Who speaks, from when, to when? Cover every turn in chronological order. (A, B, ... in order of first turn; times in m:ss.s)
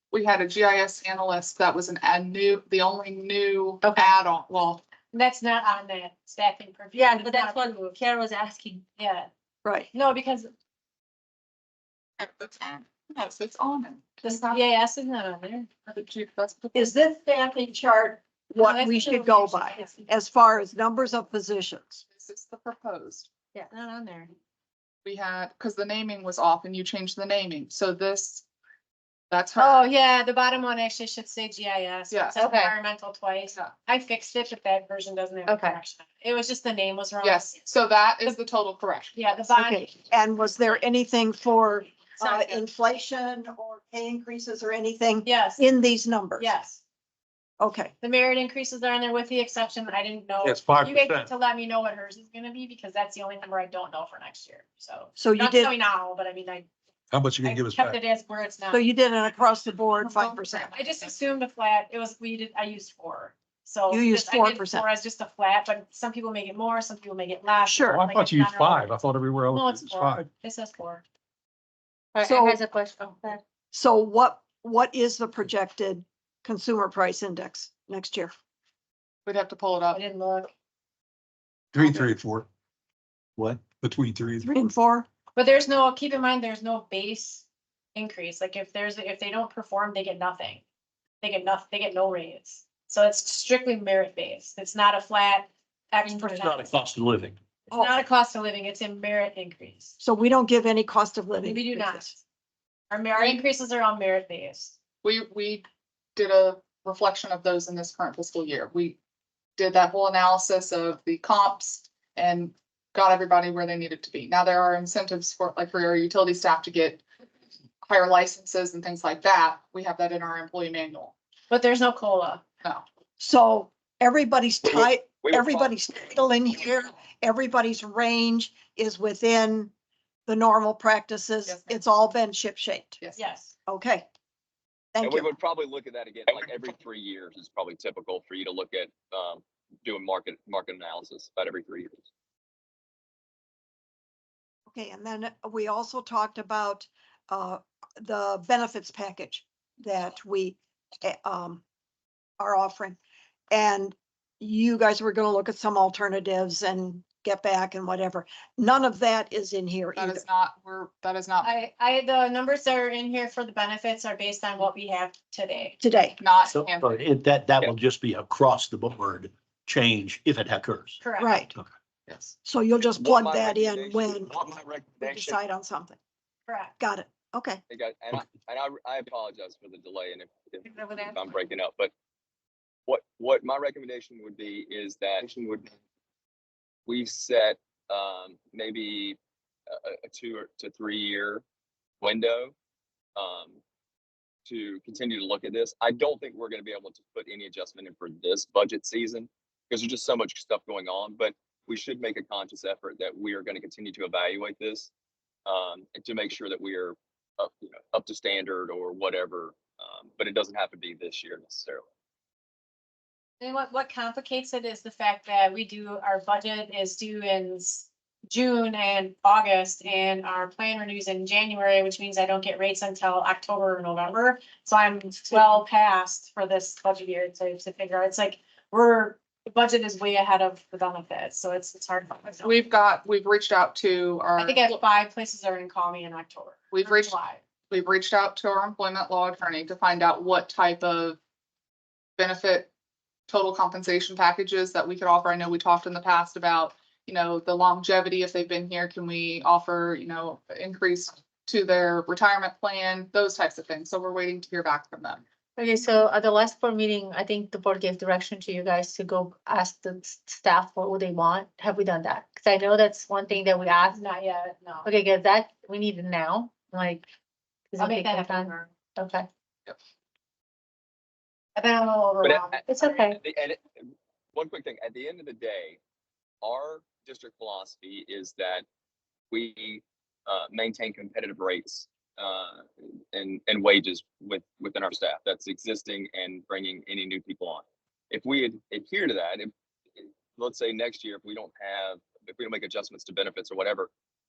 0:00.1-0:04.8 A
0:05.1-0:08.0 B
0:06.9-0:08.8 C
0:09.0-0:09.3 B
0:09.6-0:09.9 D
0:09.9-0:10.5 B
0:12.2-0:14.6 A
0:14.2-0:15.7 B
0:15.9-0:16.9 A
0:16.7-0:22.0 D
0:18.6-0:20.1 B
0:22.1-0:23.3 A
0:23.7-0:24.3 B
0:25.0-0:28.4 A
0:29.3-0:29.9 A
0:29.6-0:37.6 B
0:32.1-0:32.4 A
0:32.4-0:32.7 C
0:35.5-0:35.8 C
0:37.2-0:39.5 A
0:39.1-0:39.9 B
0:39.5-0:46.5 D
0:42.2-0:42.6 A
0:45.2-0:45.6 B
0:46.4-0:46.8 B
0:47.6-0:47.9 D
0:48.0-0:56.7 B
0:50.4-0:51.3 E
0:55.2-0:55.7 D
0:57.1-0:58.0 E
0:57.4-0:58.8 B
0:58.7-1:00.7 D
1:00.0-1:00.8 A
1:00.7-1:09.0 B
1:03.9-1:04.9 D
1:07.6-1:08.0 D
1:07.9-1:10.3 E
1:09.5-1:11.0 B
1:12.1-1:13.4 C
1:12.2-1:12.6 D
1:13.7-1:18.3 D
1:19.2-1:20.0 A
1:19.9-1:20.5 B
1:21.7-1:22.5 E
1:23.5-1:24.5 E
1:24.4-1:25.1 D
1:25.3-1:27.4 B
1:27.9-1:30.6 B
1:31.2-1:36.8 B
1:36.0-1:37.4 F
1:37.7-1:38.0 D
1:37.7-1:39.9 B
1:40.0-1:42.1 D
1:41.4-1:42.2 B
1:42.9-1:44.7 B
1:45.0-1:49.0 A
1:49.6-1:57.0 A
1:57.8-2:01.1 A
2:01.5-2:02.4 B
2:03.2-2:09.7 D
2:04.6-2:05.7 G
2:10.3-2:13.0 D
2:11.4-2:11.8 A
2:13.2-2:13.5 B
2:13.7-2:14.0 D
2:14.9-2:15.3 D
2:15.0-2:22.0 G
2:24.7-2:31.6 D
2:32.4-2:33.0 D
2:33.5-2:40.2 D
2:40.0-2:41.5 A
2:41.4-2:45.8 B
2:45.8-2:46.2 D
2:46.2-2:47.0 A
2:46.4-2:51.0 F
2:51.0-2:51.4 B
2:51.2-2:51.5 D
2:52.1-2:52.3 A
2:52.4-2:54.4 D
2:52.9-2:55.4 G
2:55.0-2:56.0 D
2:56.5-2:56.8 B
2:56.8-2:57.6 D
2:57.7-3:01.9 G
3:00.6-3:01.3 C
3:02.9-3:05.7 G
3:06.9-3:09.2 G
3:09.7-3:11.4 G
3:12.0-3:12.5 G
3:13.2-3:13.6 G
3:14.4-3:24.9 G
3:25.4-3:31.8 G
3:33.4-3:52.5 B
3:52.4-3:54.8 A
3:54.4-3:57.4 B
3:56.7-3:57.2 A
3:57.7-4:01.2 A
4:02.2-4:02.7 A
4:03.3-4:15.2 A
4:15.6-4:24.0 C
4:23.9-4:24.9 B
4:24.8-4:27.0 C
4:27.7-4:29.3 C
4:27.8-4:28.7 B
4:31.6-4:33.0 B
4:32.2-4:35.8 G
4:32.7-4:33.2 C
4:36.4-4:38.6 G
4:39.3-4:53.9 G